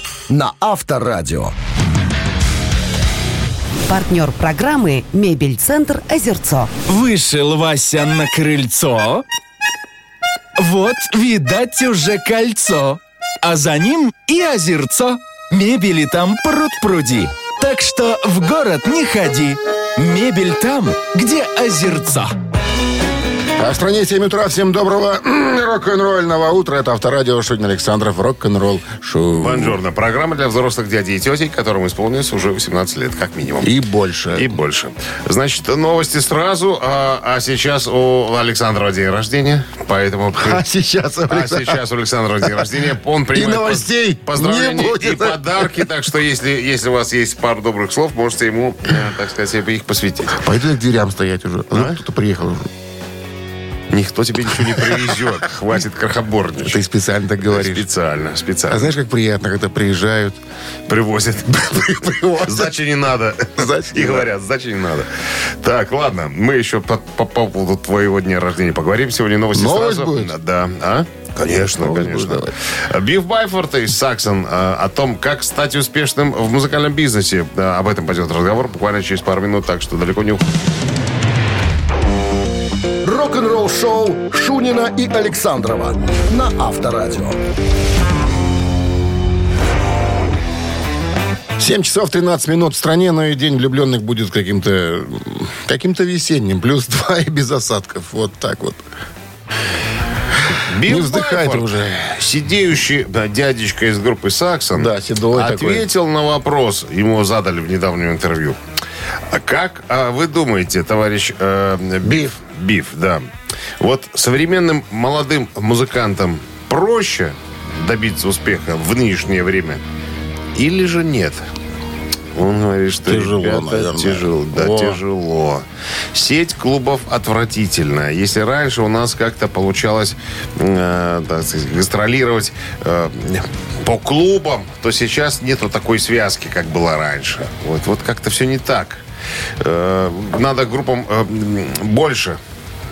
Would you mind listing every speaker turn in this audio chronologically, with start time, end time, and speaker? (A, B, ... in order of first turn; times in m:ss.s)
0:00.3-0:01.5 A
0:03.9-0:06.8 B
0:06.8-0:09.2 C
0:10.6-0:22.3 C
0:23.6-0:29.8 D
0:29.4-0:33.7 E
0:33.6-0:34.6 D
0:34.3-0:40.6 E
0:40.4-0:41.8 D
0:41.3-0:50.4 E
0:43.3-0:45.9 D
0:50.3-0:52.7 D
0:53.9-0:56.8 E
0:54.6-0:55.1 D
0:56.6-0:57.8 D
0:57.5-0:58.9 E
0:58.7-1:00.4 D
1:00.9-1:05.1 E
1:01.7-1:02.7 D
1:03.6-1:04.3 D
1:05.6-1:20.4 E
1:09.5-1:10.3 D
1:11.5-1:12.5 D
1:23.0-1:27.4 A
1:31.6-1:38.8 D
1:40.7-1:48.6 E
1:40.8-1:42.1 D
1:44.7-1:45.9 D
1:49.3-1:53.2 E
1:52.0-1:52.4 D
1:53.8-1:59.8 E
2:00.5-2:01.4 E
2:02.3-2:19.0 E
2:03.0-2:05.0 D
2:19.6-2:22.4 E